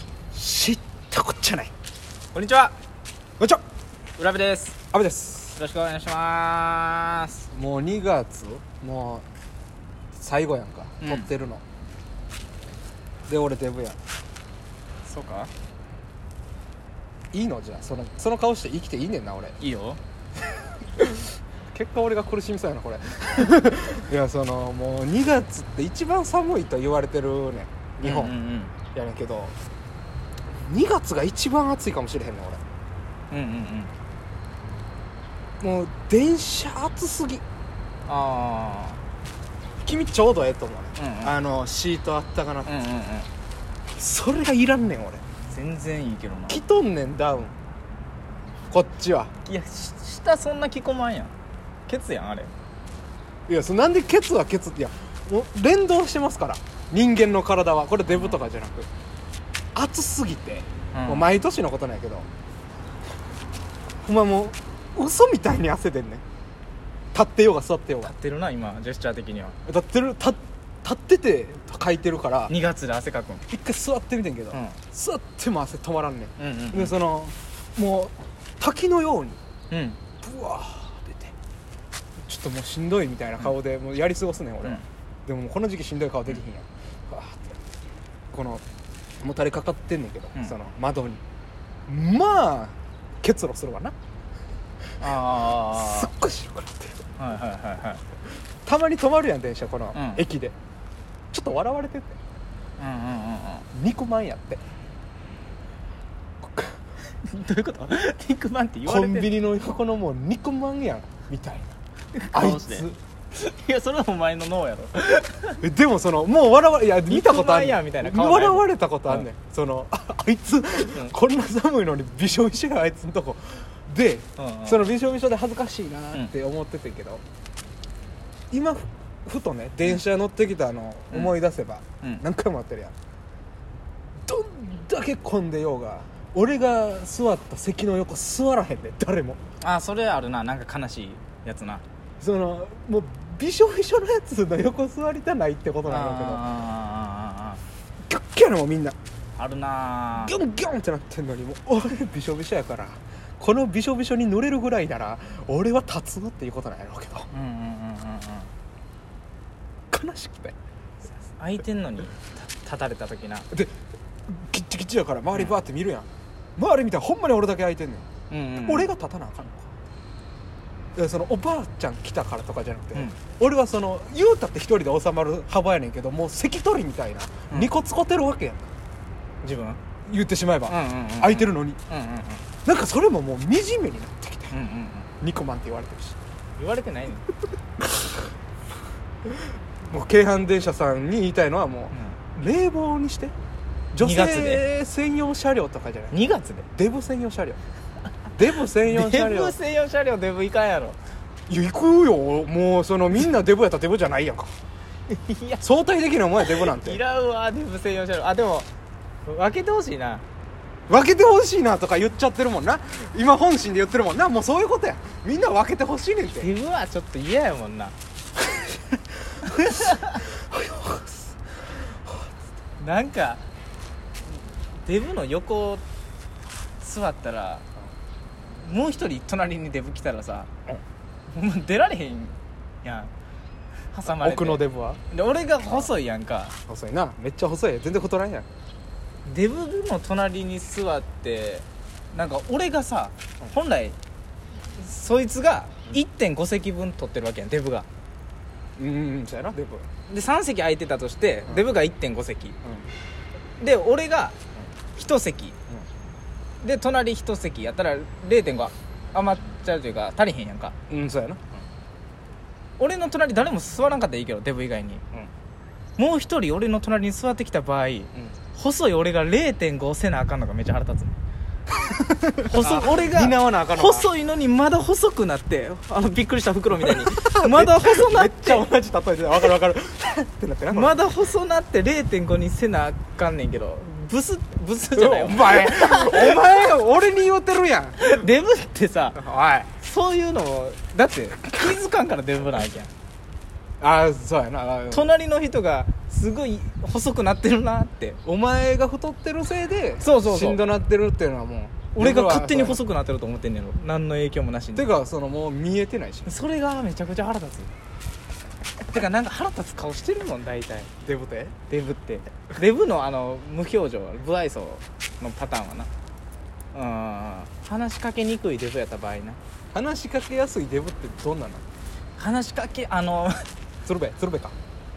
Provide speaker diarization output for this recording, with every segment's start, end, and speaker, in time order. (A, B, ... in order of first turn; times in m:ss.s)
0:00.3-0:01.7 A
0:02.3-0:02.7 B
0:04.2-0:04.8 B
0:04.9-0:05.6 A
0:05.6-0:07.4 B
0:07.5-0:09.2 A
0:10.2-0:11.6 A
0:11.0-0:11.3 B
0:13.3-0:14.0 A
0:15.0-0:15.5 B
0:17.3-0:19.6 A
0:19.6-0:20.0 B
0:21.0-0:28.3 A
0:28.0-0:28.7 B
0:28.9-0:29.5 A
0:30.5-0:32.6 A
0:33.3-0:33.9 B
0:35.6-0:37.4 A
0:38.1-0:39.0 B
0:39.8-0:42.8 A
0:41.0-0:41.3 B
0:42.6-0:43.3 B
0:43.9-0:45.2 A
0:45.5-0:46.6 B
0:46.5-0:47.5 A
0:48.7-0:49.3 A
0:49.4-0:51.3 B
0:51.9-0:52.5 B
0:53.5-0:58.9 A
0:58.1-0:58.4 B
0:59.7-1:02.3 A
1:00.9-1:01.3 B
1:04.0-1:06.2 A
1:07.1-1:08.1 A
1:08.0-1:09.6 B
1:09.6-1:12.5 A
1:12.5-1:13.5 B
1:13.5-1:19.4 A
1:14.5-1:14.8 B
1:16.4-1:16.9 B
1:19.7-1:20.0 B
1:20.2-1:21.3 A
1:22.2-1:27.6 A
1:28.3-1:28.6 A
1:29.2-1:31.2 A
1:31.9-1:33.9 A
1:35.0-1:36.1 B
1:35.7-1:37.0 A
1:37.2-1:38.0 B
1:38.6-1:40.5 A
1:39.9-1:40.2 B
1:41.3-1:42.2 A
1:42.8-1:43.7 B
1:43.7-1:44.6 A
1:46.4-1:46.7 A
1:47.2-1:49.3 B
1:48.8-1:51.7 A
1:52.2-1:55.6 B
1:52.3-1:53.0 A
1:55.6-2:07.2 A
1:57.1-1:59.2 B
2:04.4-2:04.9 B
2:08.5-2:12.9 A
2:14.2-2:19.4 A
2:19.6-2:21.8 B
2:22.2-2:26.5 A
2:25.9-2:27.6 B
2:28.1-2:29.0 A
2:29.4-2:30.3 B
2:30.1-2:37.3 A
2:37.3-2:38.5 B
2:39.9-2:40.5 A
2:41.4-2:43.5 B
2:44.3-2:49.7 A
2:48.3-2:48.9 B
2:51.0-2:58.7 A
2:59.4-2:59.8 B
3:00.0-3:01.8 A
3:00.7-3:02.4 B
3:02.6-3:04.5 A
3:04.5-3:05.1 B
3:05.2-3:06.2 A
3:06.6-3:07.2 B
3:07.8-3:08.1 A
3:09.8-3:13.3 A
3:11.9-3:12.2 B
3:13.9-3:17.6 A
3:14.0-3:14.6 B
3:16.1-3:16.7 B
3:18.3-3:19.5 A
3:18.7-3:21.0 B
3:21.5-3:24.5 A
3:25.1-3:25.6 B
3:25.6-3:27.0 A
3:26.4-3:28.7 B
3:29.2-3:30.2 B
3:30.9-3:36.5 A
3:36.3-3:37.9 B
3:39.4-3:40.2 B
3:39.6-3:41.4 A
3:42.0-3:42.3 A
3:42.8-3:43.4 B
3:44.8-3:45.8 B
3:46.8-3:47.6 B
3:48.6-3:50.5 B
3:51.3-3:53.1 B
3:53.9-3:56.6 B
3:54.0-3:55.0 A
3:55.6-3:55.9 A
3:56.7-3:58.4 A
3:59.2-4:04.0 B
4:04.8-4:07.9 B
4:08.8-4:09.8 A
4:10.1-4:12.6 B
4:13.6-4:14.4 B
4:15.0-4:15.6 B
4:16.6-4:20.7 B
4:20.9-4:21.4 A
4:22.8-4:25.0 B
4:26.0-4:31.2 B
4:31.8-4:34.1 A
4:32.4-4:38.6 B
4:36.8-4:41.0 A
4:40.7-4:46.7 B
4:44.9-4:48.0 A
4:48.0-4:49.2 B
4:49.1-4:49.7 A
4:49.8-4:52.9 B
4:53.8-4:55.1 A
4:54.9-4:58.2 B
4:58.2-5:02.8 A
5:00.0-5:00.6 B
5:01.9-5:04.9 B
5:04.7-5:06.4 A
5:06.2-5:07.7 B
5:08.9-5:10.9 B
5:11.0-5:11.6 A
5:11.7-5:15.9 B
5:16.7-5:19.4 B
5:19.7-5:21.6 A
5:22.2-5:23.5 B
5:23.8-5:24.5 A